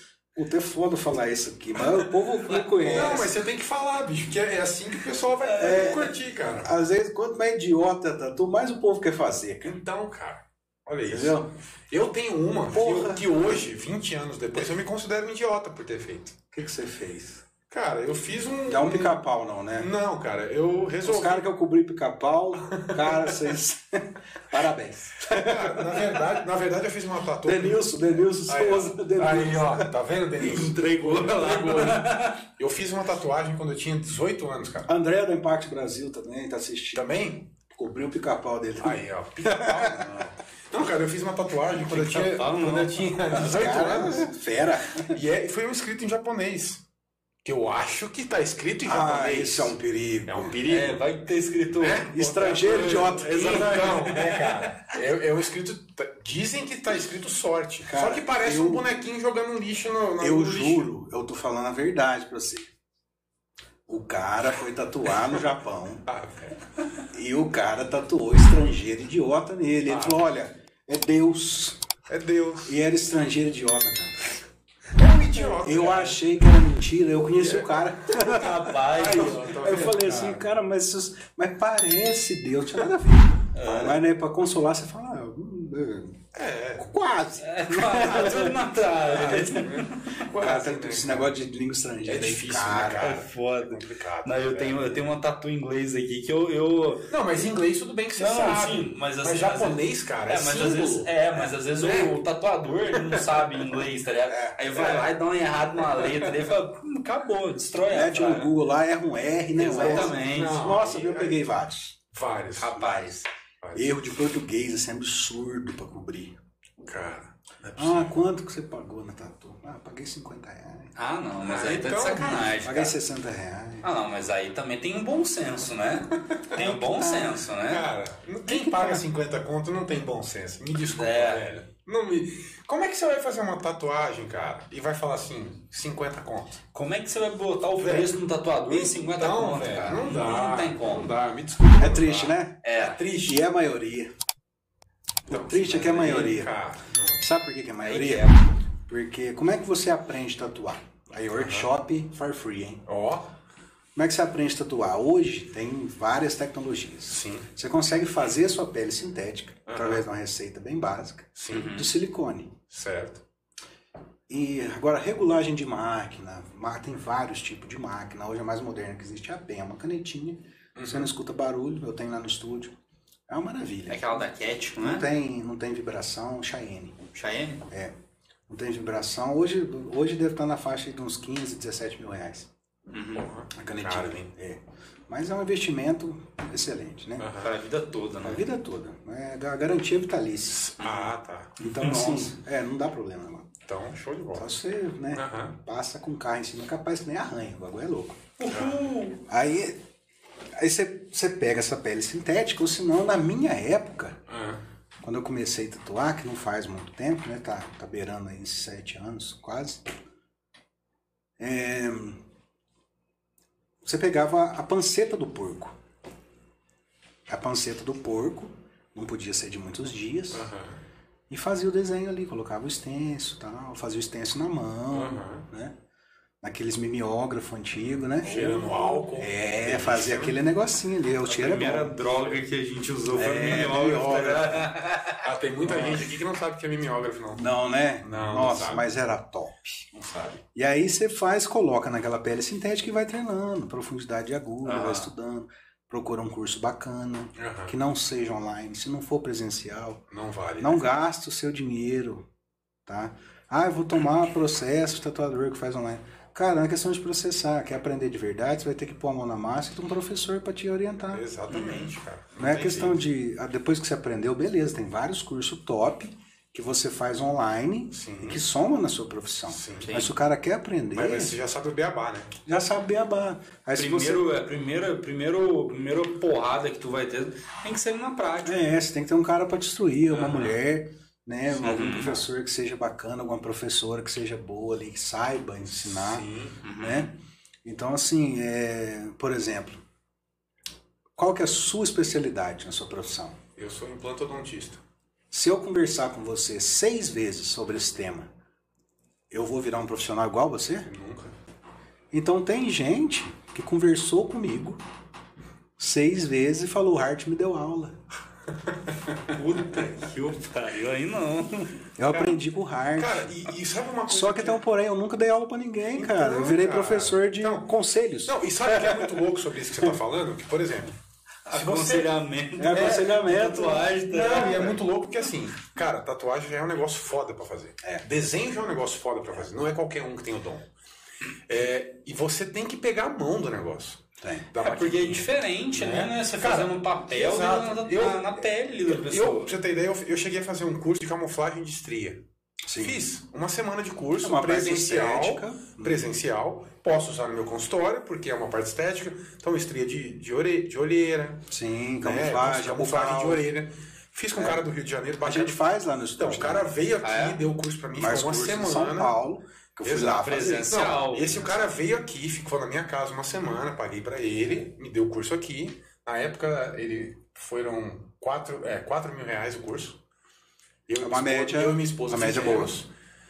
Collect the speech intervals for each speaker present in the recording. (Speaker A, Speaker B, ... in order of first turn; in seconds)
Speaker A: 0.3-3.4, 5.5-9.8, 11.1-11.5, 12.7-13.3, 16.5-17.4, 18.7-19.9, 21.0-26.3, 27.4-29.9, 34.9-40.2, 43.3-45.2, 48.8-50.6, 52.1-53.9, 57.9-58.9, 60.2-62.7, 63.9-66.1, 67.1-71.8, 72.7-74.4, 75.5-86.2, 86.7-88.6, 90.3-93.1, 104.3-104.6, 107.9-112.0, 112.8-113.1, 113.7-116.4, 117.8-120.9, 122.6-123.9, 126.6-127.4, 128.4-129.0, 141.8-142.6, 143.1-144.1, 145.3-146.5, 147.2-152.8, 153.9-162.6, 164.3-172.7, 173.3-177.0, 177.7-177.9, 178.5-182.5, 183.5-187.3, 188.2-193.6, 194.3-198.3, 199.2-199.8, 200.6-204.2, 205.0-209.8, 211.4-212.2, 213.8-215.8, 217.3-220.5, 221.3-225.8, 226.4-231.9, 233.1-234.7, 235.7-236.1, 237.3-250.0, 250.6-252.2, 252.8-261.2, 262.4-271.4, 272.4-274.3, 278.4-286.2, 286.8-289.8, 291.2-293.4, 295.3-298.3, 299.3-300.9, 302.1-304.8, 305.8-308.0, 312.0-313.4, 314.1-319.2, 322.6-323.9, 334.2-334.5, 342.7-343.0, 344.2-346.1, 351.5-353.4, 354.4-354.6, 355.2-356.8, 357.9-360.7, 371.0-372.8
Speaker B: 2.5-3.2, 30.4-32.5, 41.9-43.8, 50.6-54.9, 78.1-79.6, 83.5-84.0, 87.4-90.2, 93.0-97.1, 98.2-108.5, 109.5-110.6, 112.6-113.3, 120.9-122.9, 123.8-127.9, 130.8-131.4, 136.7-141.1, 142.6-143.0, 147.8-148.5, 161.5-161.9, 173.9-175.1, 177.1-177.6, 182.9-183.3, 187.4-188.4, 191.7-192.3, 198.4-199.2, 231.2-235.2, 244.6-245.1, 261.5-261.9, 269.8-270.1, 273.8-278.7, 281.6-282.2, 286.6-287.1, 309.3-311.8, 321.4-324.8, 334.6-339.5, 357.0-357.4, 360.0-361.5
Speaker C: 2.8-6.7, 9.6-16.4, 17.7-21.4, 22.6-23.5, 25.2-34.9, 36.9-37.5, 38.8-44.3, 45.0-46.8, 47.4-49.7, 50.3-51.0, 51.7-60.9, 66.0-66.6, 69.9-70.3, 72.1-72.8, 75.0-76.2, 77.3-80.4, 86.3-86.9, 88.2-91.3, 92.0-95.0, 97.1-102.2, 102.9-103.7, 104.7-105.1, 105.9-106.5, 109.7-111.5, 112.1-112.8, 113.6-113.9, 116.8-118.2, 121.4-122.7, 126.3-126.6, 127.6-136.6, 137.8-143.4, 145.3-147.2, 151.3-151.7, 152.9-153.3, 157.1-157.5, 159.7-160.0, 161.3-161.8, 162.7-163.2, 170.8-171.1, 183.1-184.3, 187.2-187.5, 190.5-191.6, 193.7-194.5, 195.1-195.5, 198.5-198.8, 204.3-204.6, 220.3-220.8, 224.9-225.5, 228.2-230.4, 235.2-237.5, 238.0-238.8, 247.4-247.7, 250.1-250.8, 261.1-263.0, 267.9-268.4, 269.5-269.9, 270.9-272.4, 280.1-280.6, 285.7-286.6, 293.6-294.8, 300.9-301.3, 308.7-309.4, 312.1-312.4, 312.9-314.6, 315.9-317.7, 318.2-320.9, 321.5-322.1, 322.7-323.1, 323.8-330.7, 331.5-342.2, 342.8-351.5, 352.0-355.6, 356.2-359.2, 359.8-370.0, 370.9-372.9